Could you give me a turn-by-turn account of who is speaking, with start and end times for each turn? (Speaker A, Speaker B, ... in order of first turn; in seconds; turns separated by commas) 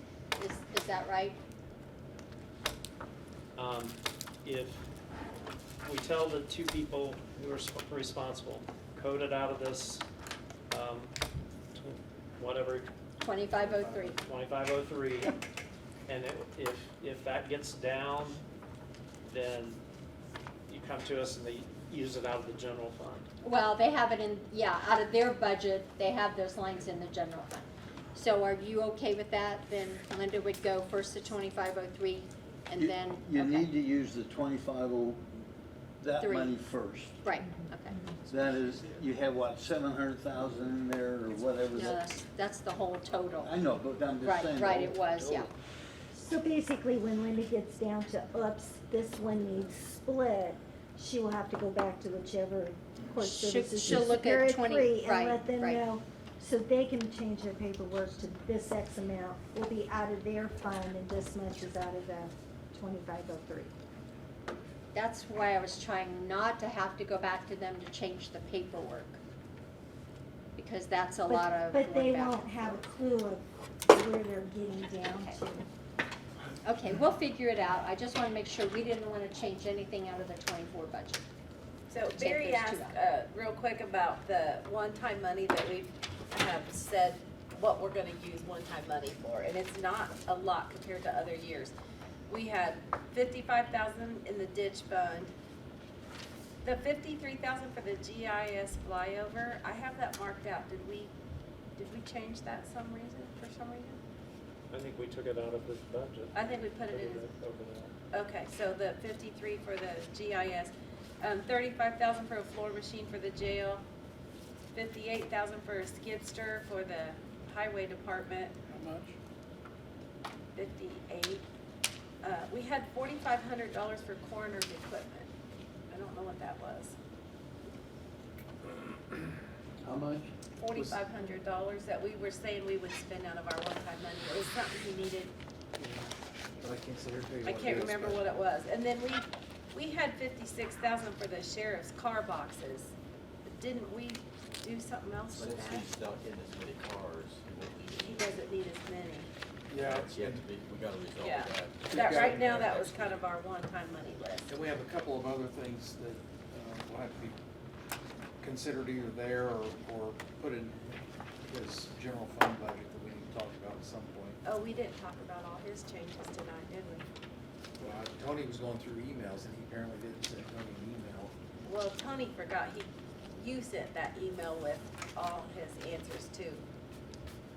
Speaker A: 0.4-1.4, Speaker B: 3.5-4.9, Speaker B: 5.8-10.1, Speaker B: 10.7-11.1, Speaker B: 11.7-12.9, Speaker A: 13.2-14.2, Speaker B: 13.7-15.4, Speaker B: 16.1-18.4, Speaker B: 19.3-19.8, Speaker B: 20.7-23.3, Speaker A: 23.4-33.7, Speaker C: 32.8-35.3, Speaker C: 36.0-37.2, Speaker A: 36.2-36.6, Speaker A: 37.2-38.0, Speaker C: 38.3-42.0, Speaker A: 41.7-43.5, Speaker C: 43.4-45.5, Speaker A: 44.2-45.5, Speaker D: 46.1-63.7, Speaker A: 53.1-55.8, Speaker A: 64.9-69.2, Speaker A: 70.6-72.7, Speaker D: 71.3-75.7, Speaker A: 75.1-75.4, Speaker A: 76.6-81.2, Speaker E: 81.9-91.7, Speaker A: 82.2-83.0, Speaker E: 92.3-95.3, Speaker E: 96.6-101.1, Speaker E: 101.8-104.0, Speaker B: 104.7-107.9, Speaker E: 106.3-107.2, Speaker E: 108.1-113.8, Speaker E: 114.7-118.5, Speaker F: 118.7-119.1, Speaker E: 120.5-121.4, Speaker E: 122.2-125.3, Speaker E: 125.9-127.0, Speaker C: 129.8-130.3, Speaker E: 130.6-135.3, Speaker F: 130.7-131.0, Speaker F: 135.8-138.2, Speaker E: 137.4-142.9, Speaker E: 143.4-145.9, Speaker G: 145.3-148.5, Speaker E: 147.9-149.3, Speaker F: 149.7-150.4, Speaker G: 149.9-153.2, Speaker E: 151.2-154.6, Speaker F: 151.9-152.8, Speaker F: 154.5-157.4, Speaker F: 158.4-164.4, Speaker E: 164.4-167.1, Speaker F: 167.8-171.3, Speaker E: 171.6-176.6